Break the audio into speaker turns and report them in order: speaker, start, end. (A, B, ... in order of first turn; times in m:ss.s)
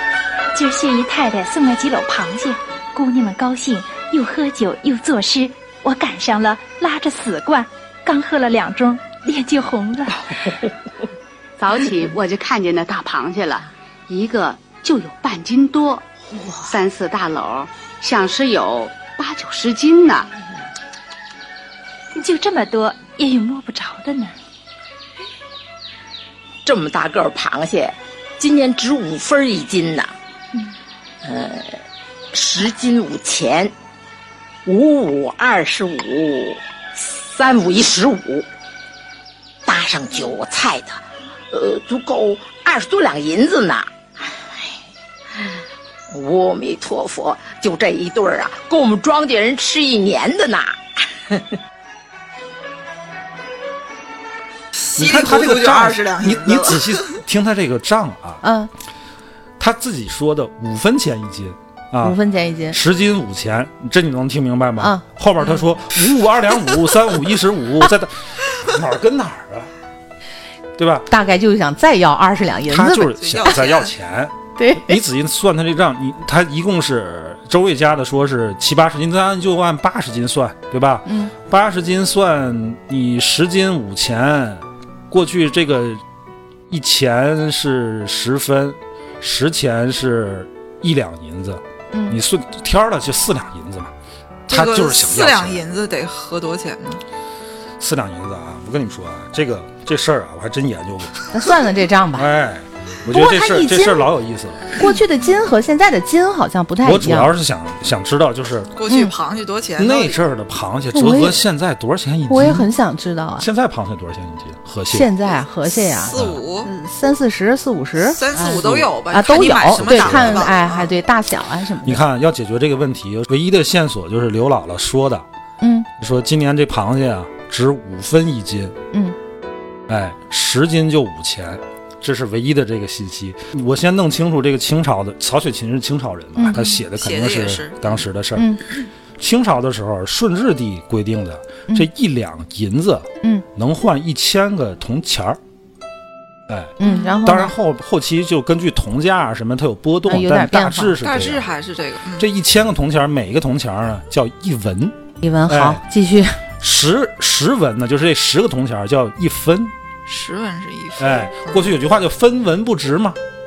0:00.5-0:10.6 A
0:11.6-0:20.3 B
0:22.1-0:24.3 A
0:26.6-0:30.1 C
0:31.2-0:31.8 C
0:32.3-0:33.7 C
0:34.7-0:38.5 C
0:39.7-0:44.7 C
0:46.1-0:51.5 C
0:54.8-0:57.2 D
0:55.0-0:58.4 E
0:58.4-0:58.7 F
0:59.6-1:02.2 E
1:02.0-1:02.8 F
1:02.7-1:09.7 E
1:10.8-1:11.1 E
1:11.1-1:13.2 F
1:12.7-1:26.0 E
1:13.2-1:13.9 D
1:14.6-1:15.0 F
1:21.1-1:21.3 F
1:26.7-1:33.9 E
1:31.9-1:32.2 F
1:34.5-1:35.6 E
1:34.5-1:37.0 D
1:37.8-1:41.3 E
1:41.3-1:42.3 F
1:42.2-1:44.8 E
1:43.1-1:44.1 F
1:44.8-1:47.3 F
1:46.8-1:48.7 E
1:48.8-1:50.2 D
1:48.9-1:49.1 F
1:49.8-1:52.7 E
1:50.9-1:51.4 F
1:52.3-1:53.5 F
1:53.4-1:55.1 E
1:54.9-2:02.0 F
1:55.7-1:56.7 D
1:56.1-1:56.4 E
1:58.0-2:01.0 D
1:58.5-1:58.9 E
1:59.6-2:00.5 E
2:01.8-2:05.2 E
2:05.6-2:05.9 F
2:06.0-2:08.8 E
2:09.9-2:18.6 E
2:16.4-2:16.6 F
2:16.5-2:18.0 D
2:18.4-2:18.6 F
2:19.2-2:25.4 E
2:26.5-2:31.5 E
2:26.8-2:27.6 F
2:26.8-2:27.2 D
2:30.1-2:31.0 F
2:31.0-2:32.3 D
2:32.2-2:35.8 E
2:35.2-2:36.4 F
2:36.6-2:39.7 E
2:40.1-2:41.8 D
2:41.0-2:43.2 E